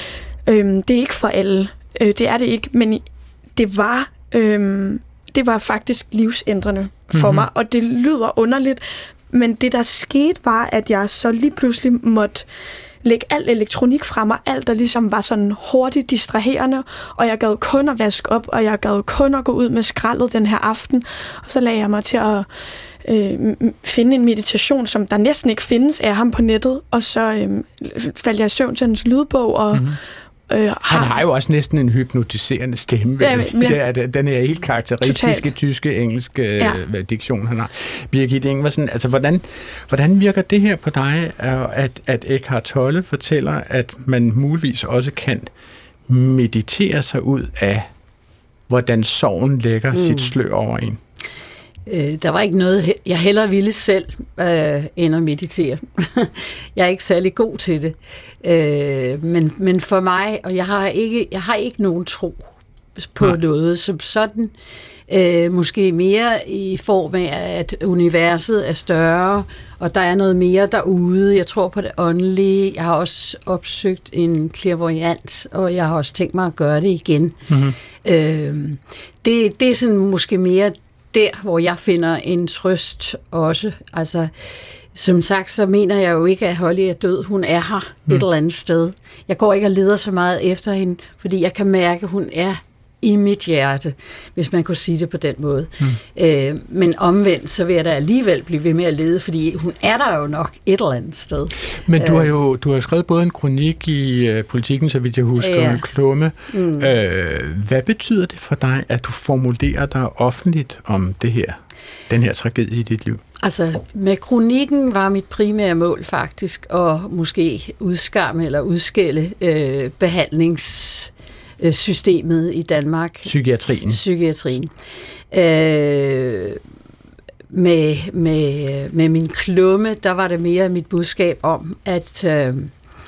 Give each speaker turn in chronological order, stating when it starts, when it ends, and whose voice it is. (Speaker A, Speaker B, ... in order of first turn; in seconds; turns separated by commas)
Speaker A: 0.4-3.0, Speaker A: 3.5-12.4, Speaker B: 7.1-7.5, Speaker A: 13.0-22.5, Speaker A: 23.0-30.0, Speaker B: 29.7-30.0, Speaker A: 30.5-31.2, Speaker B: 30.9-45.5, Speaker A: 33.2-33.8, Speaker A: 35.0-35.5, Speaker B: 46.1-47.9, Speaker B: 48.7-51.0, Speaker C: 50.0-50.3, Speaker C: 51.9-62.5, Speaker C: 63.0-64.5, Speaker C: 65.1-77.4, Speaker B: 77.5-77.8, Speaker C: 78.0-84.3, Speaker C: 84.9-102.3, Speaker B: 101.8-113.2, Speaker C: 105.4-105.8, Speaker C: 106.5-106.9, Speaker C: 113.4-123.3, Speaker B: 123.2-124.0, Speaker C: 123.9-124.7, Speaker C: 125.3-126.6, Speaker C: 127.5-132.7